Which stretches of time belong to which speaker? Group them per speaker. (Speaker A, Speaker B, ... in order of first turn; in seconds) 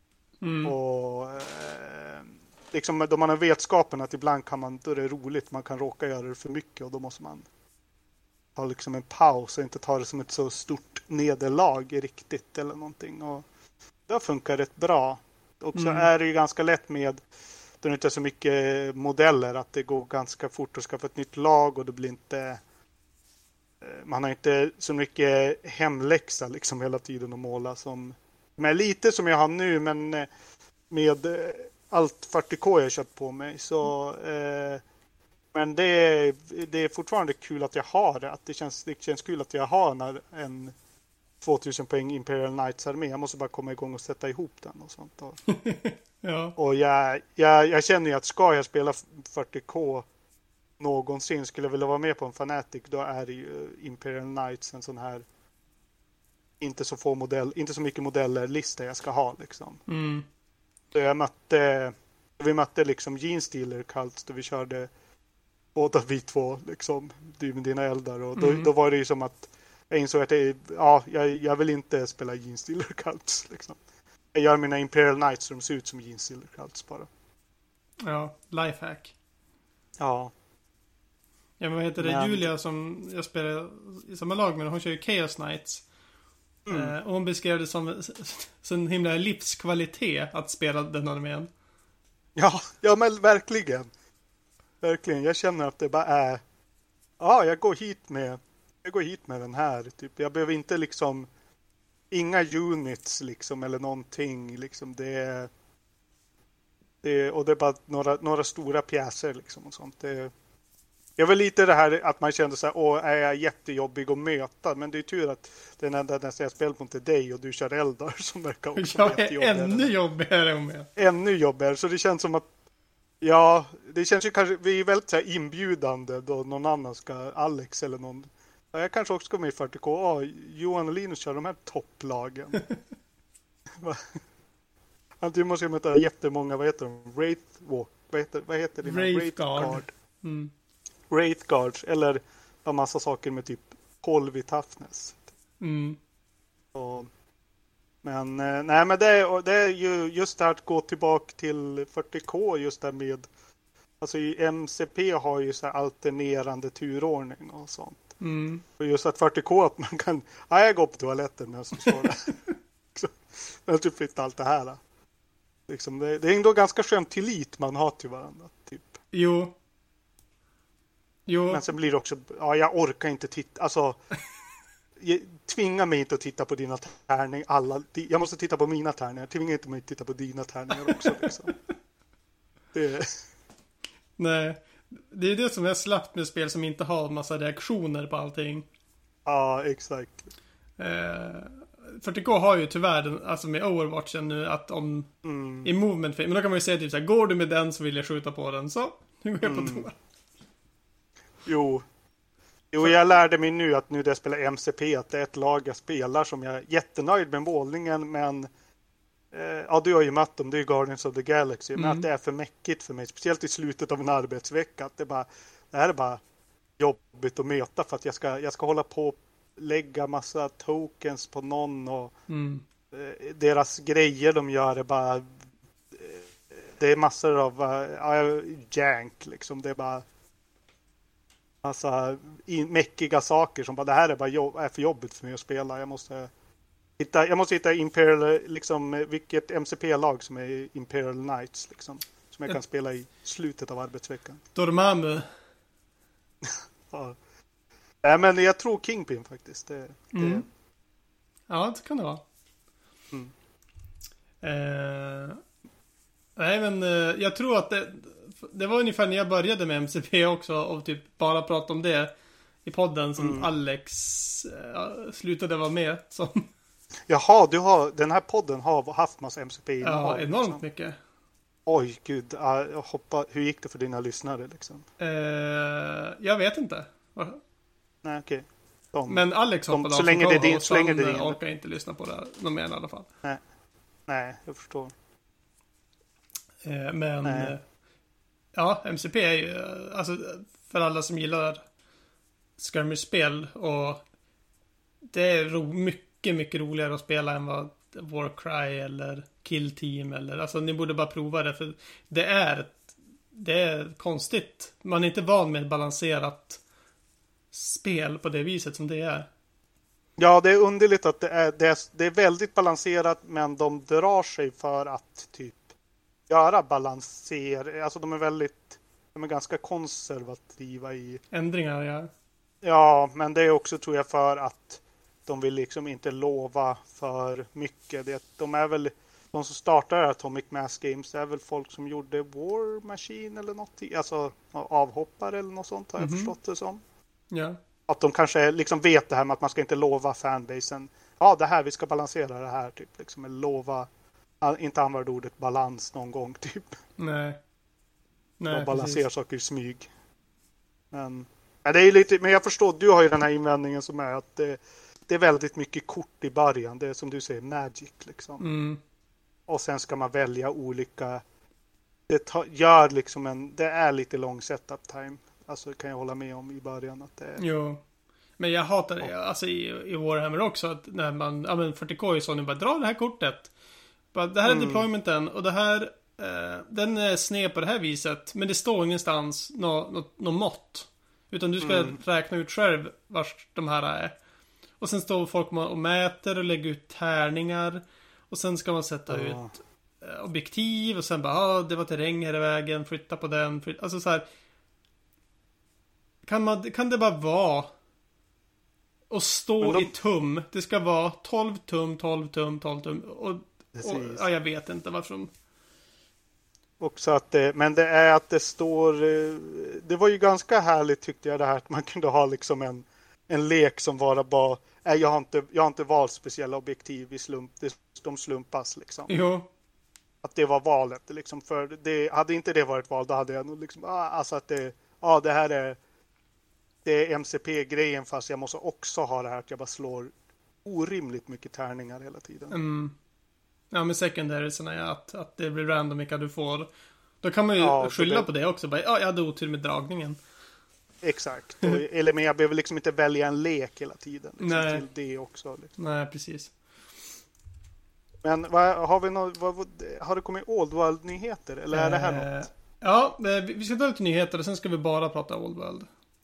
Speaker A: 0.4-0.7, 15.7-16.1, 45.5-46.5, 59.9-60.2, 68.3-68.7, 78.0-79.1, 81.6-85.8, 86.7-91.5, 118.8-120.9, 138.8-140.5, 145.6-146.0, 158.2-158.6, 169.1-169.5, 171.3-171.6, 184.2-188.7, 190.8-195.1, 195.6-199.9, 211.8-212.1, 222.3-222.6, 244.5-245.3, 250.1-250.4, 251.5-252.2, 254.4-255.4, 256.4-262.1, 262.6-266.5, 269.8-271.0, 275.0-277.4, 279.1-283.1, 286.6-287.6, 288.5-291.6, 292.6-294.0, 295.1-302.8, 303.3-306.6, 307.5-309.3, 321.3-322.1, 336.0-336.3, 337.3-337.6, 347.0-347.4, 348.4-349.0, 358.4-358.8, 367.4-367.8, 368.4-373.5, 374.1-384.1, 384.8-389.4, 390.0-394.2, 396.2-397.7, 399.1-405.3, 419.1-419.5, 432.5-432.9, 433.7-436.7, 437.2-440.2, 444.4-444.8, 445.8-446.5, 451.7-455.9
Speaker B: 0.6-7.4, 8.6-13.4, 14.1-17.2, 17.8-22.6, 23.8-30.3, 30.9-34.8, 35.5-40.7, 41.4-45.4, 46.6-50.0, 50.8-55.2, 56.6-59.8, 60.9-64.9, 65.7-73.8, 74.3-77.1, 80.0-80.3, 82.0-82.5, 86.7-86.9, 92.3-93.9, 94.8-96.4, 97.2-101.3, 102.1-105.5, 107.0-110.3, 111.2-119.9, 121.0-122.5, 123.2-132.6, 133.8-134.2, 135.2-139.9, 141.1-145.2, 146.7-147.1, 148.0-153.3, 154.0-158.0, 158.8-162.3, 162.9-164.8, 165.7-169.0, 171.5-174.0, 175.0-181.5, 182.7-183.2, 189.2-190.3, 195.2-195.7, 199.4-199.9, 201.4-201.8, 202.7-208.5, 209.3-216.2, 216.8-222.1, 222.9-225.3, 225.9-230.0, 231.6-236.3, 237.0-244.4, 246.4-247.2, 248.0-250.4, 263.2-263.5, 267.1-270.6, 271.6-274.8, 278.0-281.4, 284.1-284.9, 287.2-287.5, 310.2-315.6, 316.3-321.2, 322.6-336.8, 337.9-343.9, 344.4-346.8, 348.5-349.9, 350.9-358.4, 359.5-361.2, 362.1-367.4, 374.4-374.9, 381.6-382.0, 389.1-389.5, 399.6-399.9, 403.8-404.2, 406.8-419.2, 420.2-425.8, 426.8-430.1, 430.6-432.5, 437.6-438.3, 441.0-445.7, 448.2-452.3